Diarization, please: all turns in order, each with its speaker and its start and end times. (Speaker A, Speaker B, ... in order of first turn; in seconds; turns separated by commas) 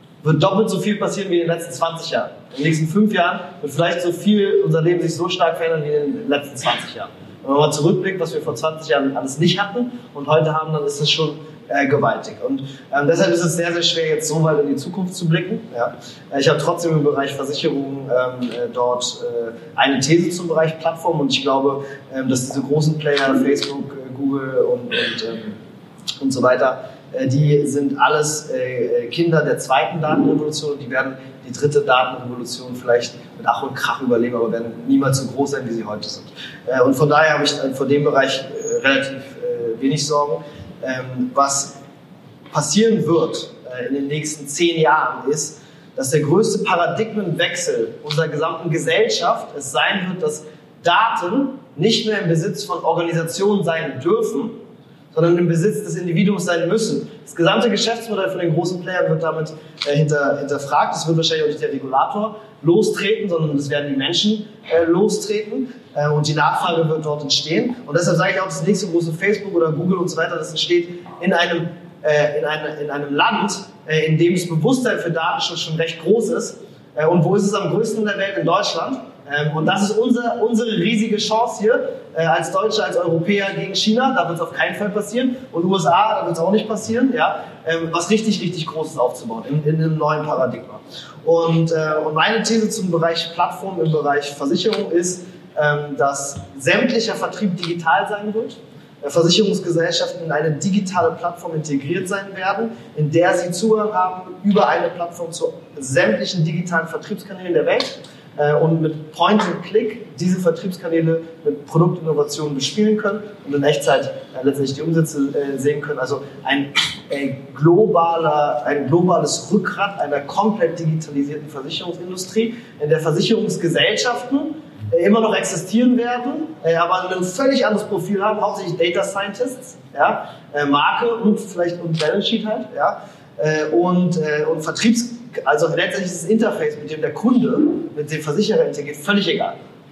Speaker A: 0.2-25.6, Speaker A: 26.2-41.8, Speaker A: 42.5-54.5, Speaker A: 55.1-139.6